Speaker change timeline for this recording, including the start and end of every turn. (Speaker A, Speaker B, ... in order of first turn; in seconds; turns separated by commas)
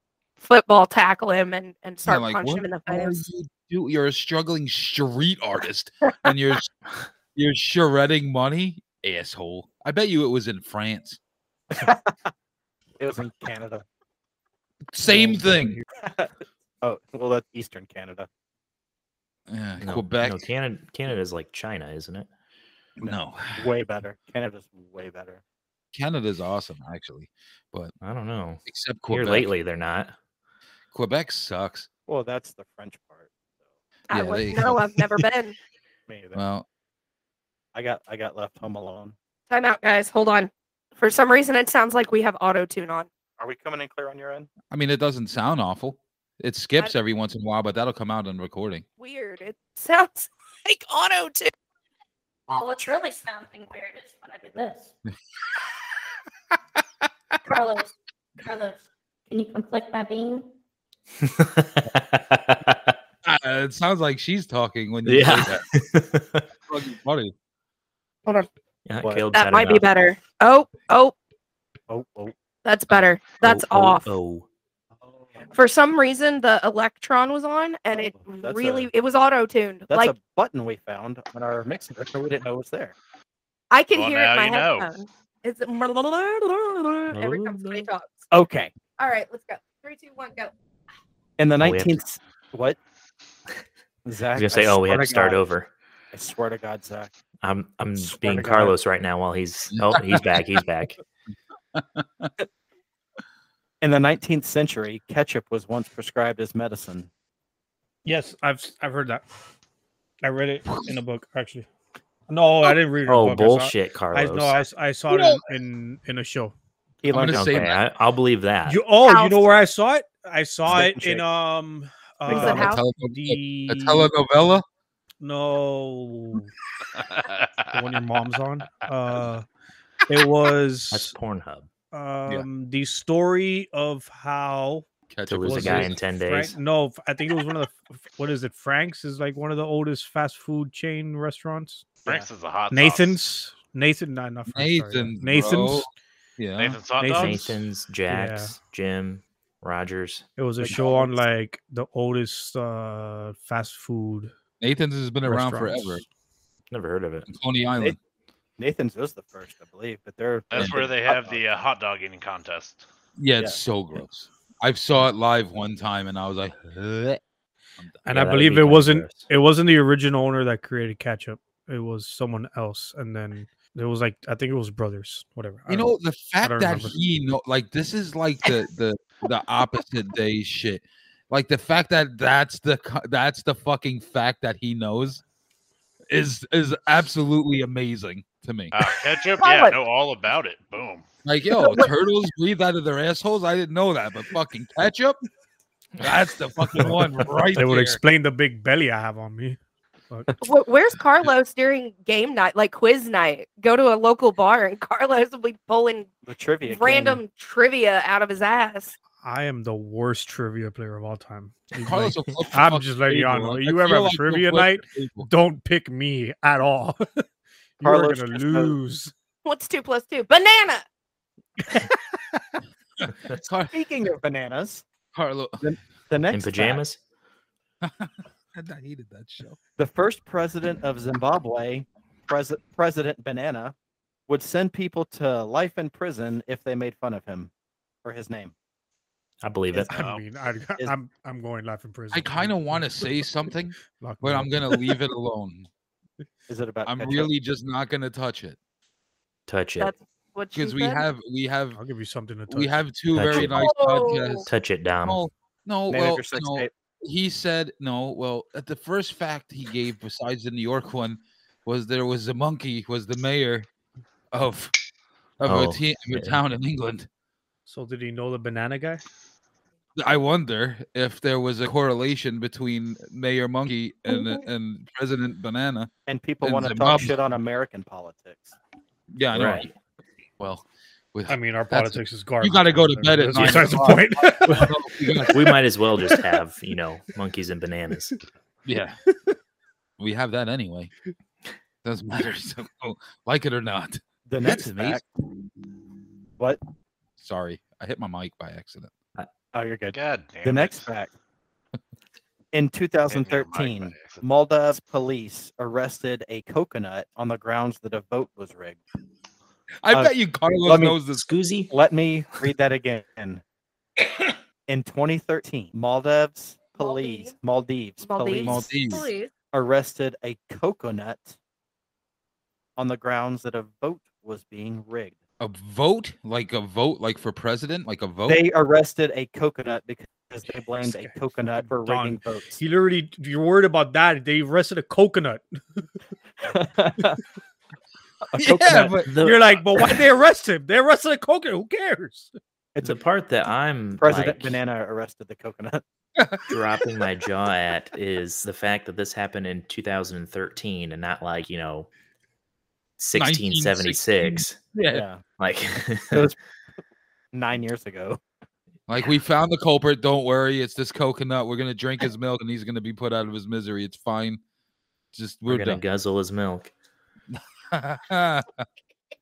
Speaker A: 0.4-3.2, Speaker B: 2.0-6.7, Speaker B: 7.3-11.2, Speaker C: 11.7-12.3, Speaker C: 13.0-13.8, Speaker B: 14.9-15.8, Speaker D: 15.0-15.8, Speaker C: 16.0-18.3, Speaker B: 19.5-20.4, Speaker E: 19.8-22.3, Speaker B: 23.0-23.7, Speaker C: 23.0-25.4, Speaker B: 25.9-27.9, Speaker E: 28.0-30.1, Speaker B: 28.7-29.5, Speaker B: 30.9-31.9, Speaker C: 32.1-33.3, Speaker B: 34.1-35.2, Speaker A: 34.1-35.5, Speaker C: 36.1-36.4, Speaker B: 36.4-36.6, Speaker C: 37.7-39.1, Speaker A: 39.5-43.1, Speaker C: 43.4-44.5, Speaker B: 44.7-48.9, Speaker A: 49.0-51.5, Speaker F: 52.5-54.9, Speaker F: 57.4-60.5, Speaker E: 61.2-63.0, Speaker B: 63.2-65.7, Speaker E: 65.1-66.5, Speaker B: 66.7-67.3, Speaker E: 68.9-69.9, Speaker C: 69.0-69.3, Speaker A: 69.3-71.2, Speaker C: 71.9-72.3, Speaker A: 72.7-74.1, Speaker E: 72.9-74.5, Speaker C: 75.0-75.5, Speaker A: 75.5-80.2, Speaker C: 77.9-78.9, Speaker C: 79.9-83.0, Speaker A: 83.7-88.3, Speaker G: 83.9-84.9, Speaker E: 87.1-87.9, Speaker C: 88.3-88.7, Speaker A: 89.0-90.5, Speaker C: 91.4-92.8, Speaker E: 91.6-92.1, Speaker C: 94.1-95.4, Speaker E: 94.4-95.7, Speaker C: 96.1-97.1, Speaker E: 97.4-101.0, Speaker C: 98.0-98.7, Speaker B: 99.8-100.6, Speaker B: 101.8-102.3, Speaker C: 103.8-107.1, Speaker D: 108.0-109.2, Speaker D: 110.2-111.7, Speaker B: 110.7-110.9, Speaker D: 112.3-116.5, Speaker E: 113.1-114.6, Speaker B: 115.1-115.4, Speaker C: 117.0-117.6, Speaker B: 117.1-117.8, Speaker E: 117.2-118.8, Speaker D: 118.7-124.1, Speaker A: 119.0-119.5, Speaker C: 120.7-121.2, Speaker A: 122.3-122.8, Speaker C: 122.3-122.6, Speaker B: 122.4-124.6, Speaker D: 125.2-126.5, Speaker G: 127.0-127.8, Speaker D: 127.7-129.4, Speaker D: 130.1-131.1, Speaker E: 130.9-131.7, Speaker D: 131.9-134.8, Speaker B: 135.1-136.0, Speaker E: 135.3-136.6, Speaker D: 135.4-141.9, Speaker G: 142.1-143.2, Speaker D: 142.7-145.9, Speaker B: 144.5-146.8, Speaker G: 146.6-147.4, Speaker D: 147.0-148.6, Speaker E: 147.1-150.3, Speaker D: 150.4-154.3, Speaker C: 150.6-151.2, Speaker B: 154.6-156.0, Speaker D: 155.2-156.0, Speaker E: 156.7-157.3, Speaker B: 157.3-158.0, Speaker C: 158.6-161.4, Speaker G: 160.5-162.8, Speaker B: 163.2-167.2, Speaker D: 168.1-177.0, Speaker E: 168.1-169.2, Speaker B: 175.7-185.2, Speaker B: 186.1-188.8, Speaker G: 188.7-191.1, Speaker A: 189.4-189.8, Speaker B: 191.2-195.2, Speaker A: 191.6-191.9, Speaker B: 196.0-198.0, Speaker D: 197.6-199.6, Speaker A: 200.4-206.1, Speaker C: 206.2-207.2, Speaker A: 206.7-208.9, Speaker D: 209.2-217.2, Speaker B: 211.8-215.3, Speaker D: 217.8-219.1, Speaker C: 217.8-218.8, Speaker A: 219.4-220.8, Speaker B: 223.0-223.7, Speaker C: 223.7-224.8, Speaker B: 225.1-225.7, Speaker C: 225.6-226.8, Speaker E: 226.3-227.0, Speaker B: 227.8-229.6, Speaker C: 229.8-233.8, Speaker C: 234.3-237.5, Speaker C: 238.0-238.5, Speaker E: 239.4-240.0, Speaker C: 239.7-240.1, Speaker D: 239.9-243.3, Speaker G: 240.0-240.2, Speaker B: 242.1-245.7, Speaker D: 243.8-245.0, Speaker C: 246.5-247.3, Speaker B: 246.9-248.6, Speaker E: 249.5-249.9, Speaker A: 249.8-251.1, Speaker B: 250.5-251.8, Speaker D: 251.7-252.9, Speaker B: 252.5-254.5, Speaker E: 253.1-253.7, Speaker A: 253.3-254.5, Speaker E: 254.5-255.2, Speaker B: 255.1-263.7, Speaker C: 255.9-256.7, Speaker B: 264.3-264.7, Speaker B: 265.4-267.1, Speaker E: 265.5-266.4, Speaker D: 267.7-269.0, Speaker B: 270.0-275.9, Speaker C: 276.1-278.6, Speaker B: 276.4-277.2, Speaker B: 279.1-279.7, Speaker E: 279.3-279.7, Speaker B: 280.4-285.6, Speaker D: 281.3-284.7, Speaker E: 285.3-288.2, Speaker B: 288.6-289.0, Speaker B: 290.0-290.9, Speaker B: 291.8-295.0, Speaker C: 294.3-295.0, Speaker B: 297.2-298.9, Speaker C: 299.5-301.1, Speaker G: 299.9-300.9, Speaker C: 302.5-308.8, Speaker G: 303.1-304.2, Speaker B: 309.8-311.3, Speaker C: 309.9-311.0, Speaker E: 311.1-311.7, Speaker C: 311.7-313.4, Speaker C: 314.7-318.8, Speaker A: 316.8-317.4, Speaker A: 318.0-319.3, Speaker B: 318.4-319.1, Speaker C: 319.5-321.4, Speaker C: 322.8-325.2, Speaker B: 325.4-328.4, Speaker C: 328.3-332.6, Speaker D: 330.8-335.4, Speaker C: 336.4-337.2, Speaker C: 338.3-339.0, Speaker B: 338.4-339.1, Speaker E: 339.1-340.0, Speaker D: 339.2-342.3, Speaker E: 342.8-344.6, Speaker C: 344.0-345.8, Speaker B: 346.2-346.6, Speaker E: 346.5-351.9, Speaker E: 353.0-354.6, Speaker B: 353.1-355.0, Speaker C: 354.9-355.2, Speaker E: 355.4-356.3, Speaker C: 357.3-358.2, Speaker B: 358.9-364.4, Speaker B: 365.1-365.8, Speaker E: 365.5-366.7, Speaker B: 367.3-368.6